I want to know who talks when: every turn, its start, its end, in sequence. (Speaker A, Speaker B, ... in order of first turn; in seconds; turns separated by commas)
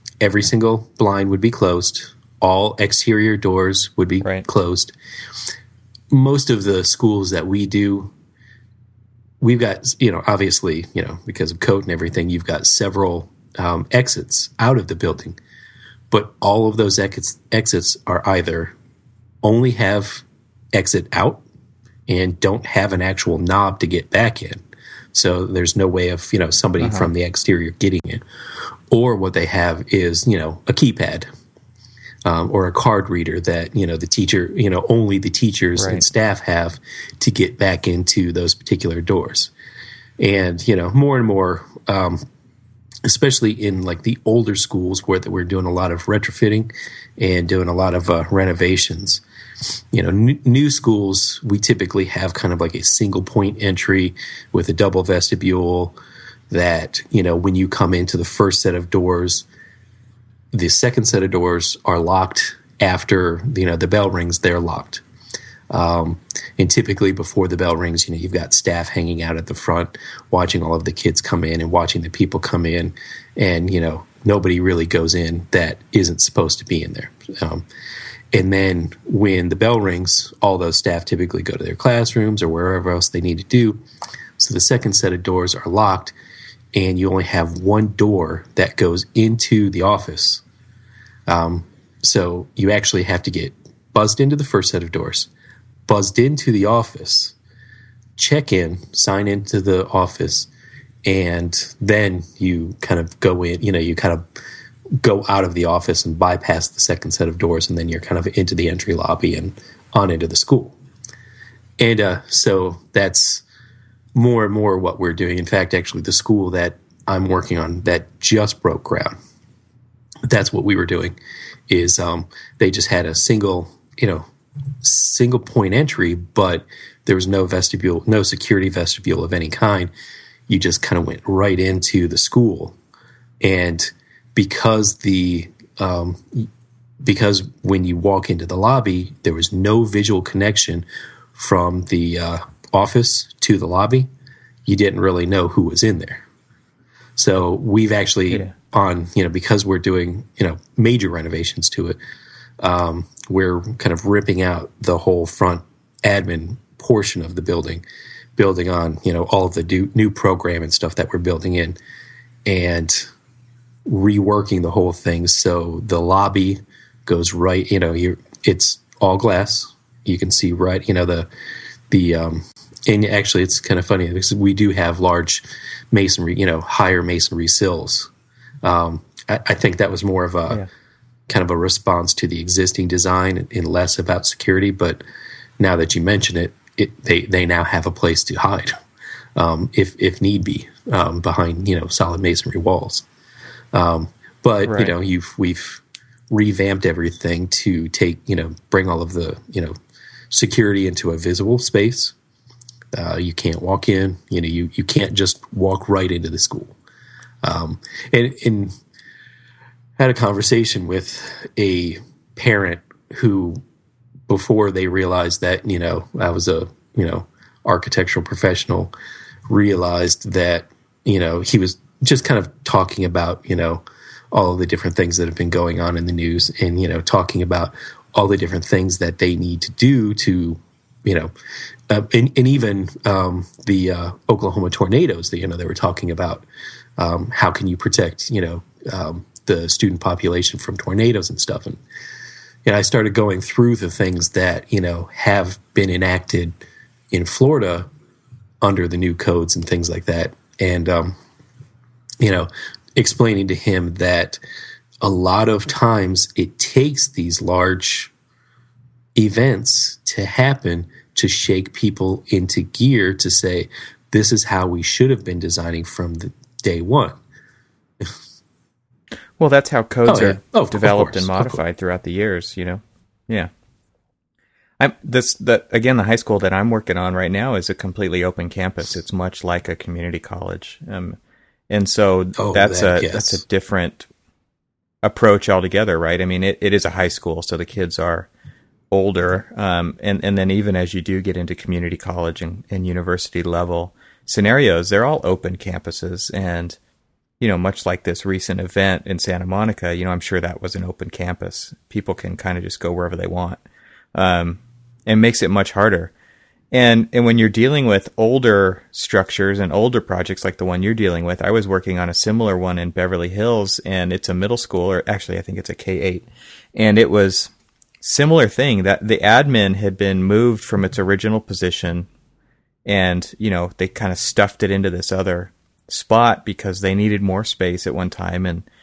Speaker A: 0.2-4.9, Speaker A: 6.1-8.1, Speaker A: 9.4-15.4, Speaker A: 16.1-18.7, Speaker A: 19.4-21.4, Speaker A: 22.1-24.6, Speaker A: 25.1-28.2, Speaker B: 26.8-27.1, Speaker A: 28.9-31.3, Speaker A: 32.3-39.5, Speaker B: 35.8-36.0, Speaker A: 40.2-42.2, Speaker A: 43.0-49.2, Speaker A: 49.9-56.0, Speaker A: 56.5-59.5, Speaker A: 60.5-65.0, Speaker A: 65.7-77.7, Speaker A: 78.3-83.8, Speaker A: 84.4-86.1, Speaker A: 86.8-90.4, Speaker A: 91.3-95.3, Speaker A: 95.9-97.3, Speaker A: 98.2-100.5, Speaker A: 101.1-104.3, Speaker A: 105.0-110.8, Speaker A: 111.8-113.4, Speaker A: 114.2-119.2, Speaker A: 120.3-121.2, Speaker A: 121.7-124.3, Speaker A: 124.8-129.9, Speaker A: 130.5-132.8, Speaker A: 133.4-136.5, Speaker A: 137.0-144.1, Speaker A: 144.7-146.2, Speaker A: 147.2-152.0, Speaker A: 152.6-157.8, Speaker A: 158.4-161.8, Speaker A: 162.5-163.1, Speaker A: 163.9-171.3, Speaker A: 171.9-178.1, Speaker A: 178.6-180.6, Speaker A: 181.3-185.0, Speaker A: 185.6-188.8, Speaker A: 189.4-193.0, Speaker A: 193.7-199.8, Speaker B: 194.7-194.9, Speaker A: 200.3-202.2, Speaker A: 202.9-206.8, Speaker A: 207.4-208.8, Speaker A: 210.0-213.6, Speaker A: 214.3-218.9, Speaker A: 219.5-231.3, Speaker A: 231.9-236.4, Speaker A: 237.0-241.8, Speaker A: 242.7-246.6, Speaker A: 247.1-247.9, Speaker A: 248.6-251.2, Speaker A: 252.2-254.4, Speaker A: 255.0-258.1, Speaker A: 259.2-267.2, Speaker B: 269.4-273.5, Speaker A: 270.1-271.6, Speaker B: 274.8-281.2, Speaker B: 281.7-284.1, Speaker A: 282.4-283.4, Speaker B: 285.0-288.3, Speaker B: 288.9-296.8, Speaker B: 297.4-303.6, Speaker B: 304.1-306.1, Speaker B: 306.7-317.5, Speaker B: 318.0-322.1, Speaker B: 322.9-328.7